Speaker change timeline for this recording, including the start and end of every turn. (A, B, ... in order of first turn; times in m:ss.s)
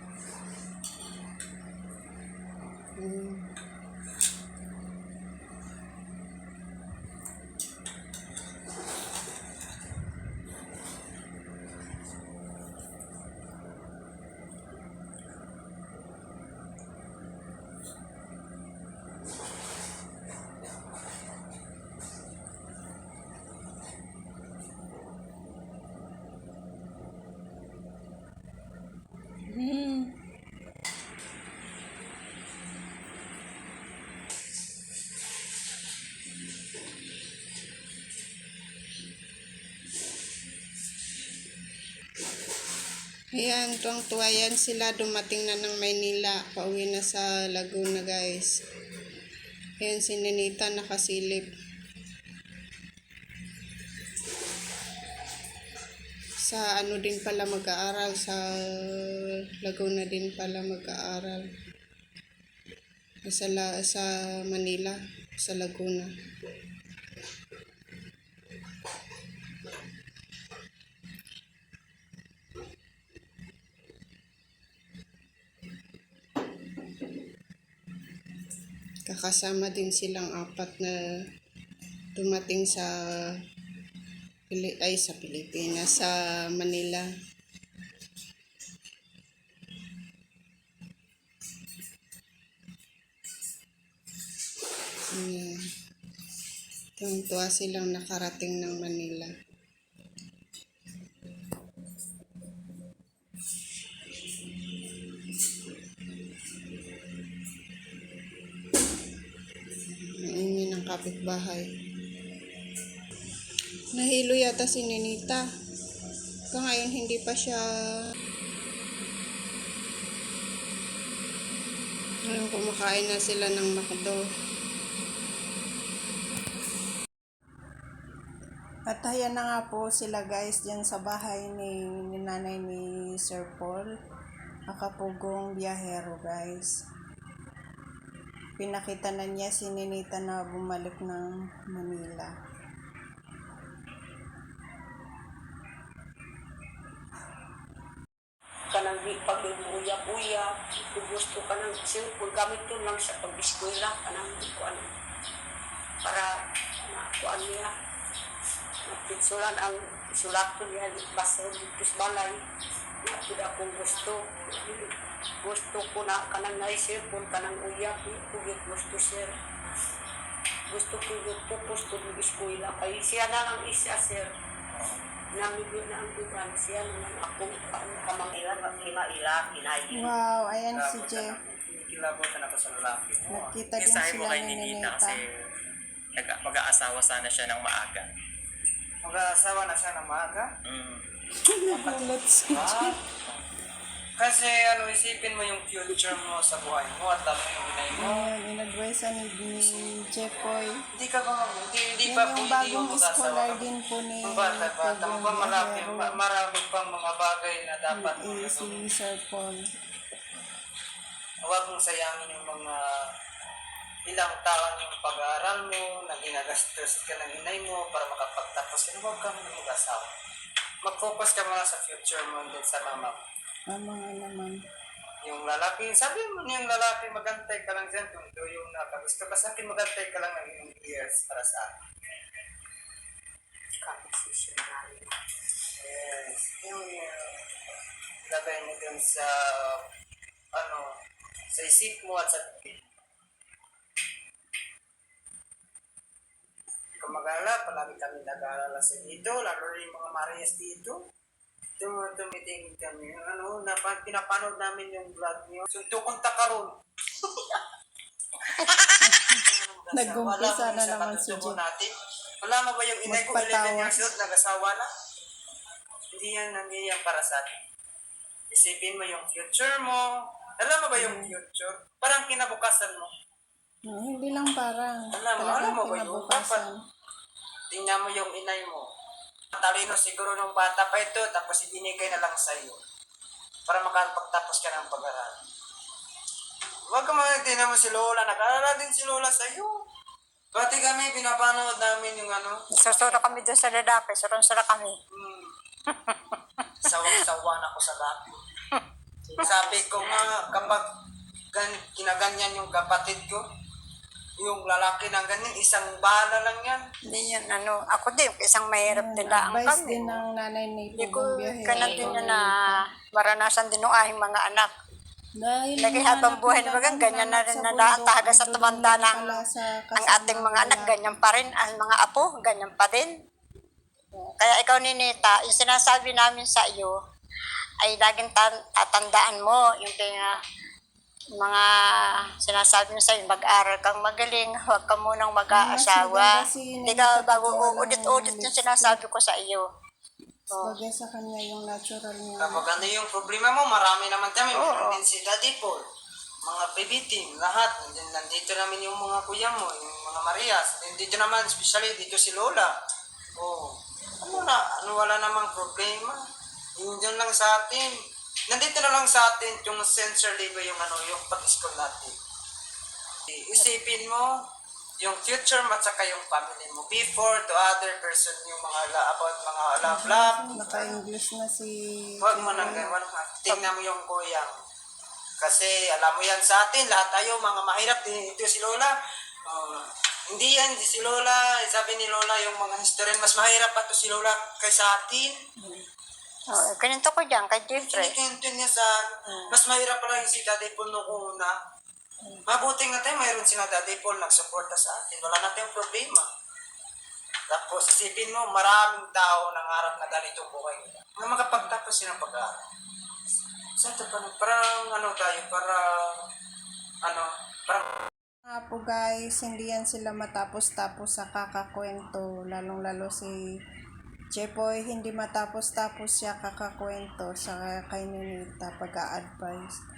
0:03.0-0:03.4 A
0:29.5-0:30.1 A
0:43.4-0:48.6 A
0:49.8-0:51.5 A
0:56.4-0:59.0 A
0:59.6-1:01.4 A
1:03.3-1:06.1 A
1:19.0-1:21.0 A
1:22.1-1:22.9 A
1:24.5-1:27.1 A
1:35.1-1:35.6 A
1:37.0-1:39.3 A
1:50.2-1:51.7 A
1:53.9-1:55.4 A
1:56.5-1:57.6 A
2:02.3-2:04.2 A
2:08.9-2:13.8 A
2:14.7-2:16.7 A
2:18.6-2:22.3 A
2:28.7-2:34.8 B
2:36.0-2:36.3 B
2:36.9-2:37.7 B
2:38.9-2:42.4 B
2:43.0-2:44.9 B
2:45.4-2:49.3 B
2:50.7-2:54.3 B
2:55.3-2:59.9 B
2:59.9-3:01.4 A
3:00.7-3:03.6 C
3:03.3-3:05.2 A
3:03.8-3:05.2 D
3:06.2-3:08.0 D
3:09.0-3:10.5 C
3:10.6-3:11.0 D
3:11.4-3:13.0 A
3:11.7-3:13.0 C
3:14.2-3:18.3 C
3:18.0-3:20.8 A
3:21.0-3:23.7 C
3:22.0-3:26.1 A
3:24.3-3:28.8 C
3:27.9-3:29.6 A
3:31.5-3:32.8 C
3:34.1-3:40.1 C
3:40.8-3:43.2 C
3:43.7-3:44.6 A
3:45.2-3:51.7 C
3:53.8-3:55.1 B
3:55.8-3:57.4 C
3:58.2-3:59.8 C
4:00.5-4:00.9 C
4:01.5-4:02.8 C
4:07.0-4:11.0 C
4:11.8-4:16.7 C
4:17.3-4:17.6 C
4:18.7-4:21.9 C
4:19.0-4:21.6 A
4:22.4-4:24.9 C
4:23.0-4:24.1 A
4:26.1-4:27.6 C
4:28.5-4:33.1 C
4:30.9-4:31.3 A
4:33.9-4:36.8 A
4:35.1-4:36.6 C
4:37.7-4:38.9 C
4:39.5-4:42.8 C
4:43.7-4:45.4 C
4:46.9-4:49.7 C
4:50.5-4:53.4 C
4:52.7-4:55.0 E
4:55.1-4:55.5 C
4:55.9-4:57.2 E
4:56.8-4:58.4 C
4:59.4-5:00.6 E
4:59.4-5:00.8 C
5:01.5-5:03.4 C
5:04.4-5:06.8 C
5:07.1-5:10.2 E
5:08.9-5:12.8 A
5:11.0-5:12.5 E
5:13.1-5:14.7 E
5:15.4-5:21.0 A
5:15.8-5:19.4 E
5:20.0-5:23.1 E
5:24.1-5:27.0 E
5:27.8-5:30.3 E
5:31.4-5:31.7 E
5:32.4-5:36.3 E
5:35.5-5:39.0 A
5:36.8-5:39.7 E
5:40.5-5:40.8 E
5:40.6-5:42.8 A
5:42.4-5:45.8 C
5:44.5-5:45.0 E
5:46.4-5:52.7 C
5:53.4-5:56.2 C
5:56.8-5:57.9 C
5:58.5-6:02.1 C
6:03.3-6:04.3 C
6:05.0-6:11.0 C
6:09.8-6:12.9 A
6:12.2-6:14.5 C
6:15.4-6:18.9 C
6:19.5-6:25.4 C
6:26.5-6:28.2 E
6:27.9-6:31.5 C
6:32.5-6:36.3 C
6:37.5-6:42.6 C
6:43.8-6:46.2 C
6:47.0-6:47.8 C
6:48.4-6:53.4 A
6:54.3-6:59.8 A